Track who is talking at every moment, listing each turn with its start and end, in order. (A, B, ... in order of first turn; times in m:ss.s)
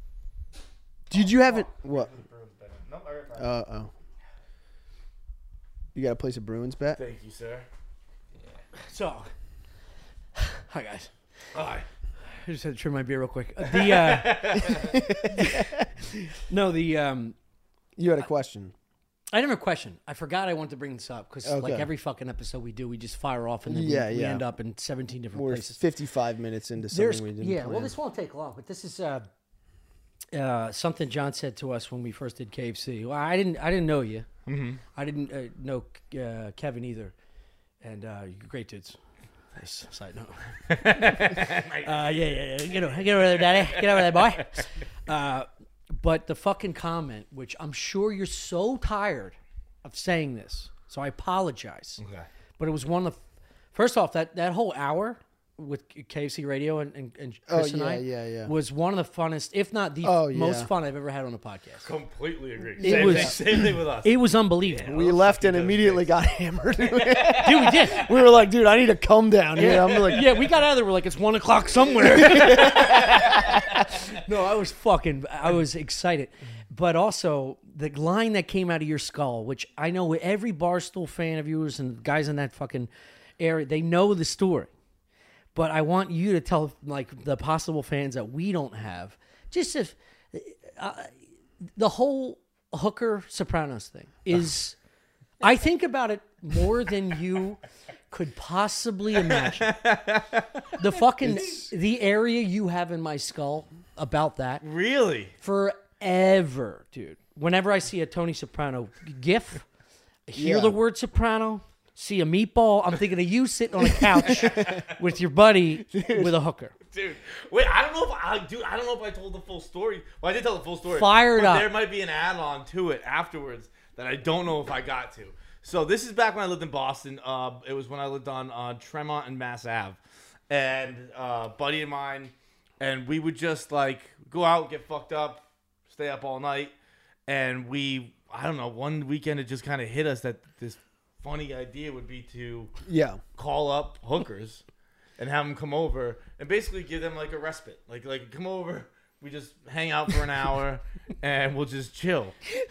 0:01.1-0:02.1 A
0:01.1-0:03.6 B
0:03.4-0:03.9 A
0:05.9-0:07.0 A
0:07.0-0:07.6 B
0:08.9-0:09.3 C
0:10.4-0:11.1 C
0:11.5-0:11.8 B
0:12.3-0:15.7 C
0:13.6-0:15.1 B
0:14.8-0:15.9 A
0:16.5-0:17.4 C
0:18.0-0:18.7 A
0:19.3-0:25.8 C
0:21.4-0:21.9 A
0:23.7-0:24.4 A
0:25.3-0:27.9 A
0:26.9-0:29.3 C
0:30.3-0:34.3 C
0:34.5-0:34.8 B
0:35.0-0:37.1 C
0:37.8-0:39.0 C
0:39.5-0:52.0 C
0:40.7-0:44.6 B
0:52.0-0:52.3 B
0:52.6-0:53.2 C
0:53.7-1:01.9 C
0:57.5-0:58.5 A
1:00.0-1:00.7 A
1:01.8-1:04.1 B
1:02.8-1:03.7 A
1:02.8-1:04.9 C
1:04.7-1:06.2 B
1:04.8-1:10.3 A
1:06.8-1:08.1 B
1:07.4-1:08.0 C
1:09.6-1:24.7 C
1:09.7-1:10.2 B
1:12.1-1:13.8 A
1:12.6-1:13.4 B
1:25.5-1:31.1 C
1:31.8-1:34.8 C
1:35.4-1:39.8 C
1:39.2-1:41.0 B
1:40.8-1:44.6 C
1:41.2-1:41.7 A
1:44.6-1:45.3 B
1:45.4-1:49.6 C
1:50.3-1:56.7 C
1:50.4-1:50.8 A
1:54.2-1:54.9 B
1:55.9-1:56.3 A
1:56.9-2:10.0 B
2:00.9-2:01.7 C
2:10.5-2:16.7 B
2:17.3-2:22.7 B
2:22.8-2:23.2 A
2:23.3-2:24.6 B
2:25.2-2:32.4 B